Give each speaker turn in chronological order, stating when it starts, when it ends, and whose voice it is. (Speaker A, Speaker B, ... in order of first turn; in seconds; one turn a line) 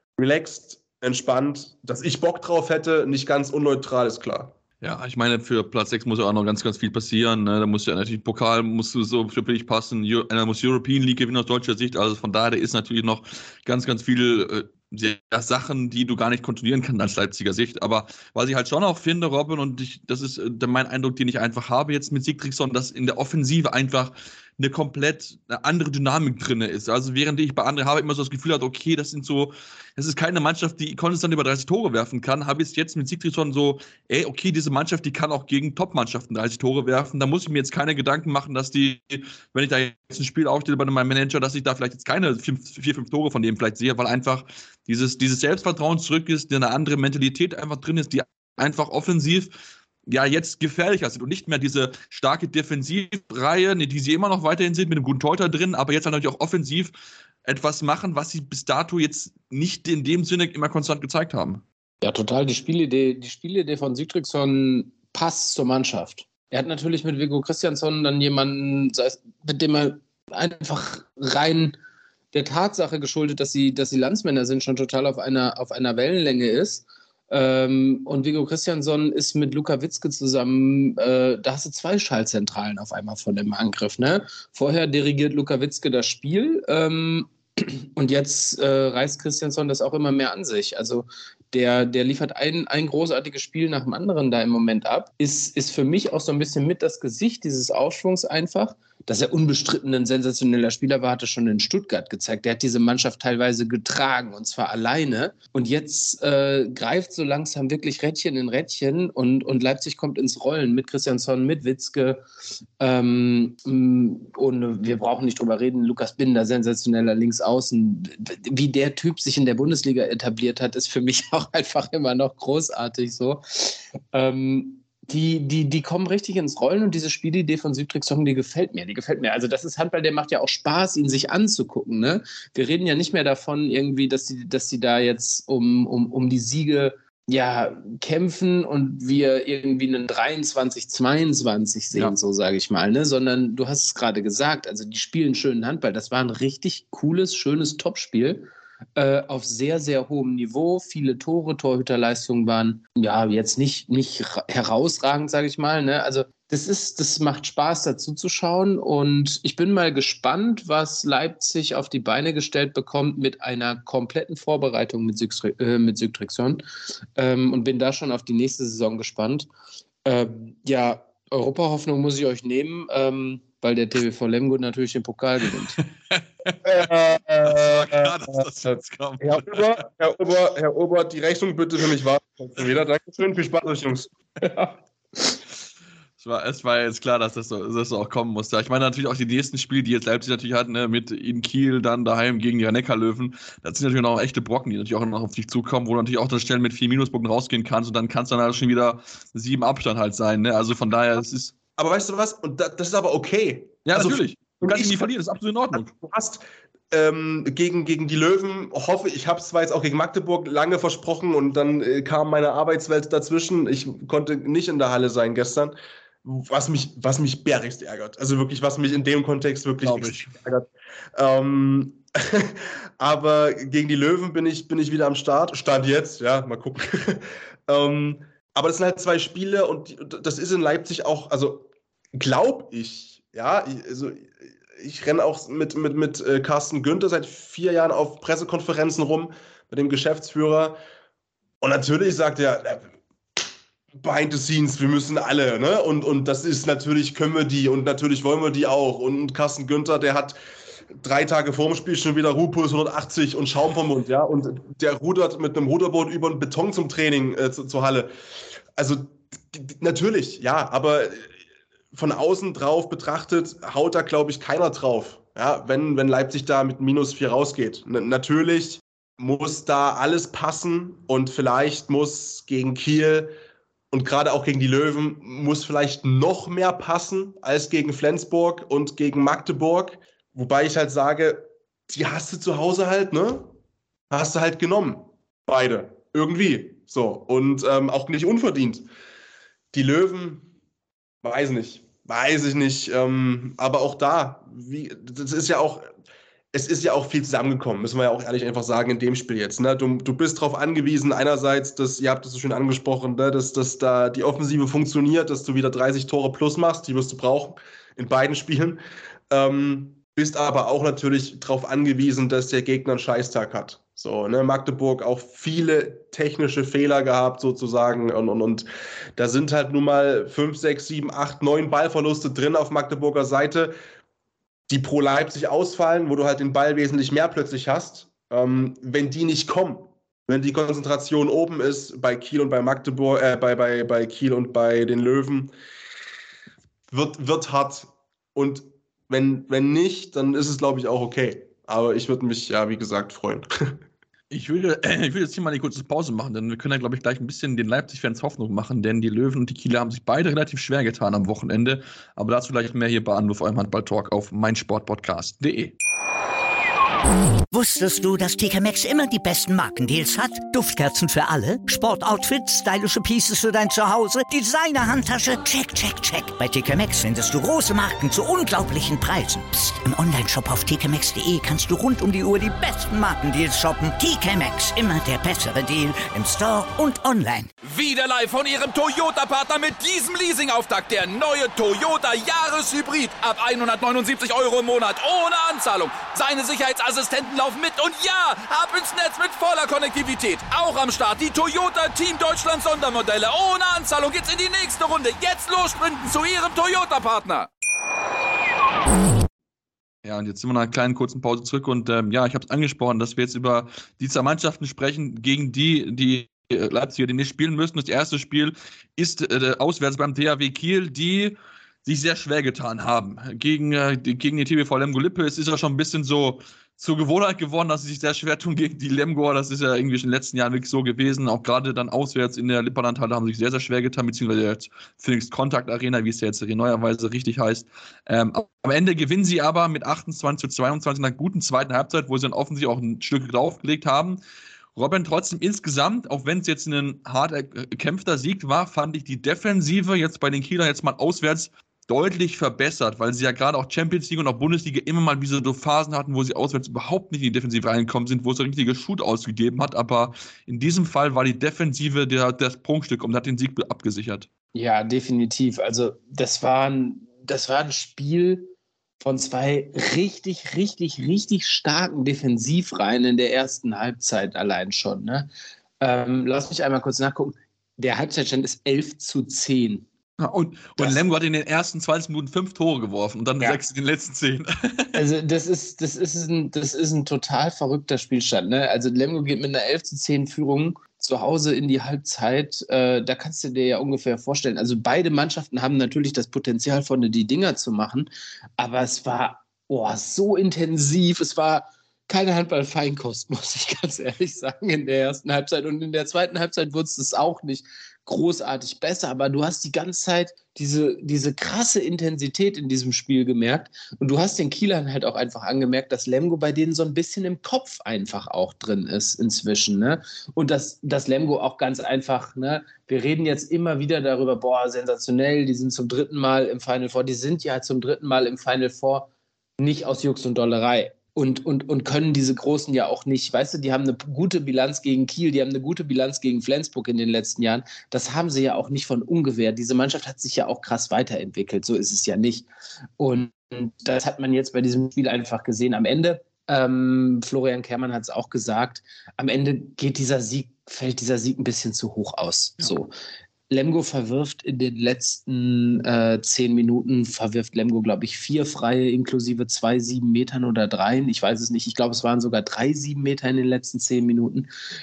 Speaker A: 0.2-4.5
Speaker B: 4.8-49.5
Speaker B: 50.1-56.9
Speaker B: 57.5-61.6
Speaker C: 62.0-71.8
Speaker C: 72.3-112.2
Speaker C: 112.8-166.6
Speaker C: 167.2-169.5
Speaker C: 170.1-175.8
Speaker B: 175.8-176.9
Speaker A: 176.7-178.4
Speaker B: 177.4-179.8
Speaker A: 179.2-184.1
Speaker C: 184.4-185.3
Speaker B: 186.2-201.5
Speaker A: 201.8-205.1
Speaker B: 203.9-205.9
Speaker A: 205.7-240.8
Speaker B: 219.8-220.3
Speaker A: 241.6-242.9
Speaker A: 244.0-250.4
Speaker A: 251.0-258.1
Speaker A: 258.8-261.3
Speaker A: 261.9-273.3
Speaker A: 273.9-283.5
Speaker A: 284.1-288.9
Speaker A: 289.7-290.5
Speaker A: 291.2-295.9
Speaker A: 296.5-308.8
Speaker A: 309.3-323.8
Speaker A: 324.7-335.5
Speaker A: 336.9-343.8
Speaker B: 344.3-355.8
Speaker D: 357.5-377.5
Speaker E: 377.6-397.5
Speaker B: 400.0-434.2
Speaker B: 434.8-454.3
Speaker C: 454.6-465.3
Speaker C: 465.8-469.9
Speaker B: 470.2-475.0
Speaker C: 474.9-519.1
Speaker C: 519.6-532.5
Speaker C: 533.0-542.9
Speaker C: 543.5-554.5